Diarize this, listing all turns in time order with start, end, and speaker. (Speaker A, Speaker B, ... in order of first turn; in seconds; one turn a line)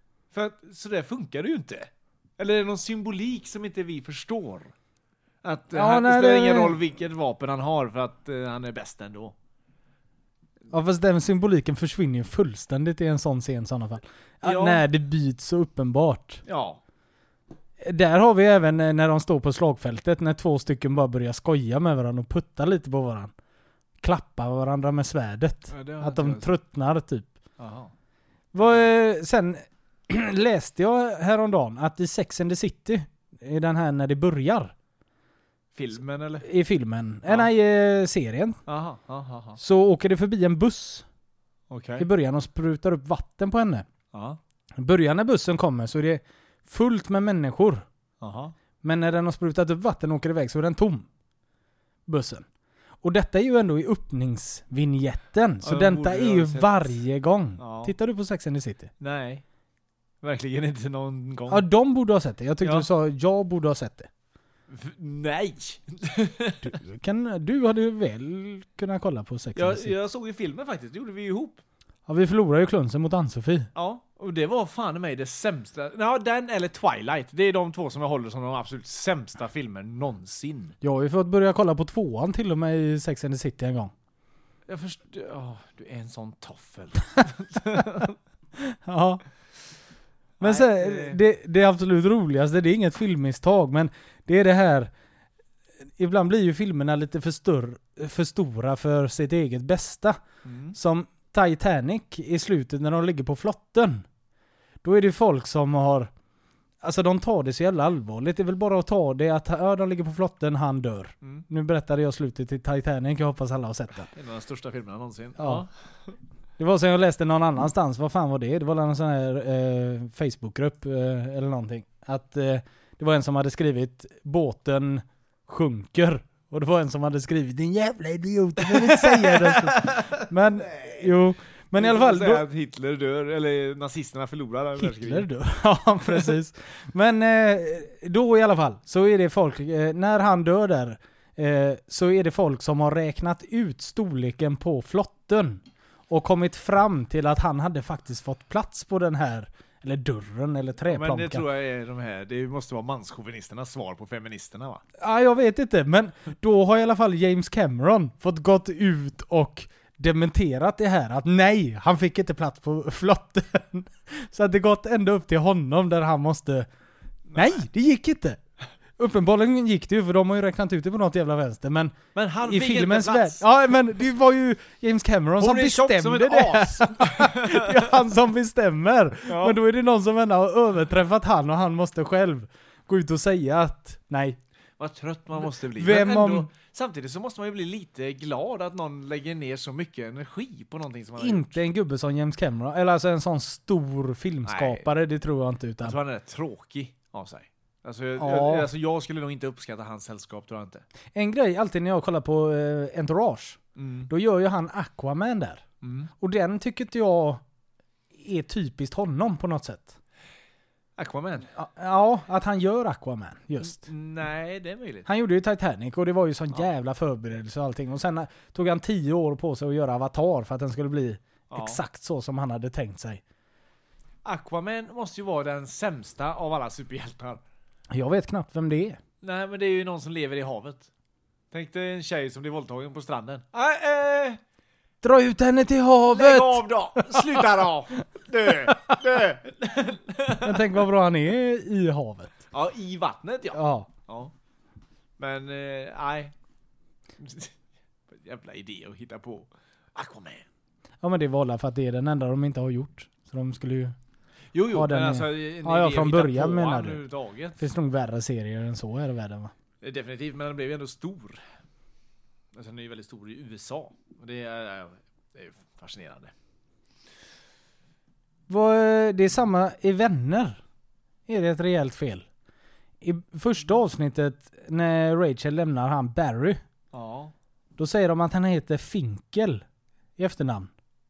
Speaker A: 0.3-4.7
Speaker A: 5.4-9.3
Speaker B: 5.7-6.8
Speaker B: 10.7-16.4
Speaker A: 14.4-14.8
Speaker A: 16.4-16.8
Speaker B: 17.8-23.3
Speaker B: 24.0-27.3
Speaker A: 25.7-26.5
Speaker A: 27.6-27.9
Speaker B: 28.5-34.7
Speaker A: 28.6-28.9
Speaker A: 35.8-36.5
Speaker B: 36.4-38.6
Speaker A: 38.7-39.6
Speaker B: 39.6-41.0
Speaker A: 41.7-42.1
Speaker B: 42.0-43.9
Speaker A: 44.1-44.4
Speaker B: 44.8-47.9
Speaker A: 48.2-48.5
Speaker B: 48.8-51.1
Speaker B: 52.1-52.5
Speaker B: 53.0-58.9
Speaker A: 55.6-57.0
Speaker A: 57.6-58.0
Speaker A: 59.0-59.4
Speaker A: 60.2-61.7
Speaker B: 61.5-64.1
Speaker A: 62.6-62.9
Speaker A: 64.7-66.8
Speaker B: 66.6-69.9
Speaker A: 69.5-71.6
Speaker B: 72.1-73.7
Speaker A: 73.8-80.8
Speaker B: 80.8-83.9
Speaker A: 84.7-88.2
Speaker B: 88.6-89.2
Speaker A: 90.4-91.2
Speaker B: 90.4-94.9
Speaker B: 96.0-100.2
Speaker A: 100.4-100.8
Speaker B: 100.7-104.1
Speaker B: 104.8-106.1
Speaker B: 106.8-114.1
Speaker A: 114.1-115.7
Speaker B: 115.4-115.7
Speaker B: 116.6-132.5
Speaker A: 128.7-131.1
Speaker A: 131.8-135.3
Speaker B: 134.8-151.4
Speaker A: 150.8-154.8
Speaker B: 155.0-166.7
Speaker A: 167.3-167.6
Speaker B: 167.3-168.4
Speaker B: 169.0-184.4
Speaker A: 172.2-173.4
Speaker A: 175.4-178.0
Speaker A: 179.2-179.6
Speaker A: 184.8-191.6
Speaker B: 185.4-186.5
Speaker B: 191.2-196.0
Speaker A: 194.5-194.9
Speaker A: 195.8-200.8
Speaker B: 198.2-198.7
Speaker B: 201.1-205.6
Speaker A: 203.8-204.1
Speaker A: 205.8-206.1
Speaker B: 206.2-207.4
Speaker B: 208.1-210.0
Speaker A: 211.0-211.5
Speaker B: 211.6-213.9
Speaker A: 213.6-215.1
Speaker B: 215.1-223.2
Speaker A: 221.5-221.8
Speaker A: 224.2-227.4
Speaker B: 227.9-229.0
Speaker A: 229.2-230.9
Speaker A: 231.5-234.4
Speaker B: 235.0-237.5
Speaker A: 236.1-240.6
Speaker B: 238.7-238.9
Speaker B: 240.4-242.4
Speaker A: 242.5-244.3
Speaker B: 243.5-243.9
Speaker A: 245.2-246.3
Speaker A: 247.2-247.6
Speaker A: 248.1-250.5
Speaker B: 251.0-254.0
Speaker A: 254.5-257.6
Speaker B: 254.7-257.0
Speaker B: 257.6-259.5
Speaker A: 259.8-261.4
Speaker A: 262.5-266.3
Speaker B: 268.5-270.6
Speaker B: 271.3-272.3
Speaker B: 273.0-276.6
Speaker A: 276.9-277.3
Speaker B: 277.8-279.6
Speaker B: 280.2-280.7